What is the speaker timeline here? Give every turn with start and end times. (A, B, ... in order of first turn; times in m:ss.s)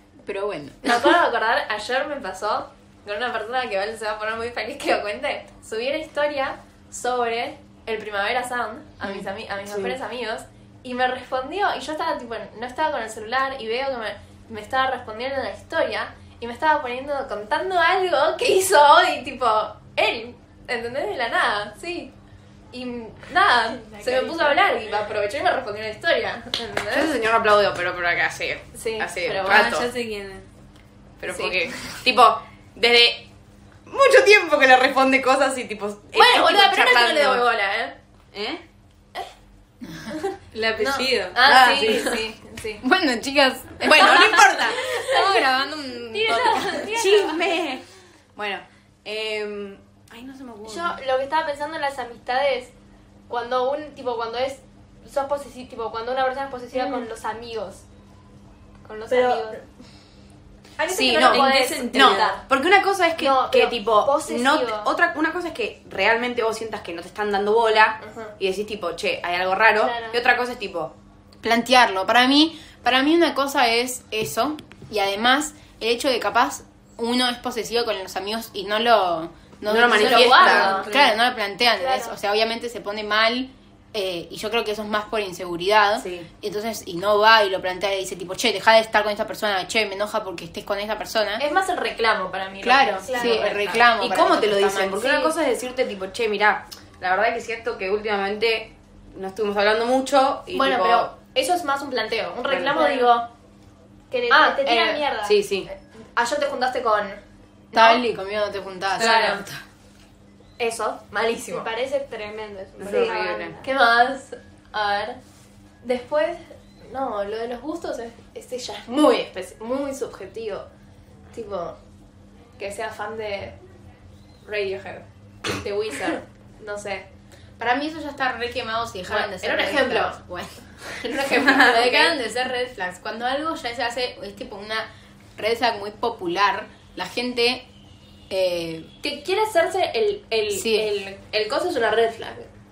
0:00.2-0:01.2 A
0:00.8-0:22.1 B
0:09.0-0:09.9 C
0:22.7-0:27.1 B
0:23.7-0:24.8 D
0:26.9-0:29.9 C
0:28.7-0:29.7 B
0:29.4-0:30.5 E
0:31.2-0:33.3 C
0:31.3-0:31.8 B
0:33.9-0:37.5 C
0:36.1-0:37.9 B
0:38.3-0:38.6 C
0:40.0-0:42.8 B
0:40.5-0:41.5 E
0:41.4-0:42.2 C
0:42.8-0:47.0 A
0:43.8-0:44.8 C
0:44.8-0:45.2 B
0:45.1-0:45.4 D
0:46.1-0:47.5 D
0:46.9-0:47.8 C
0:48.4-0:51.0 C
0:50.6-0:52.7 D
0:53.3-0:57.8 D
0:56.7-0:57.1 B
0:58.8-0:59.6 D
0:59.1-0:59.6 B
1:00.8-1:02.4 B
1:00.9-1:10.9 C
1:01.2-1:02.4 E
1:03.2-1:04.9 D
1:03.2-1:03.7 B
1:08.0-1:08.3 B
1:09.7-1:10.2 D
1:11.4-1:31.4 A
1:19.6-1:20.9 C
1:19.9-1:20.9 B
1:20.7-1:21.2 E
1:21.8-1:22.1 D
1:26.0-1:26.3 C
1:31.4-1:33.8 B
1:32.6-1:35.3 A
1:33.0-1:33.6 D
1:33.6-1:41.1 C
1:40.5-1:43.3 B
1:42.5-1:42.7 C
1:42.7-1:43.1 D
1:44.1-1:45.4 D
1:44.3-1:45.1 B
1:45.2-1:45.7 C
1:45.7-1:47.2 B
1:47.7-1:48.0 B
1:47.7-1:49.4 A
1:49.0-1:49.4 B
1:49.0-1:49.4 C
1:50.6-1:51.7 B
1:51.5-1:53.7 D
1:52.8-1:53.6 C
1:53.6-1:55.2 B
1:55.8-2:00.7 B
2:01.3-2:01.8 B
2:02.6-2:03.6 B
2:04.4-2:07.1 B
2:07.6-2:17.7 A
2:09.1-2:10.2 B
2:11.0-2:12.2 B
2:11.4-2:11.7 C
2:18.3-2:18.9 A
2:19.0-2:22.5 B
2:20.5-2:20.9 A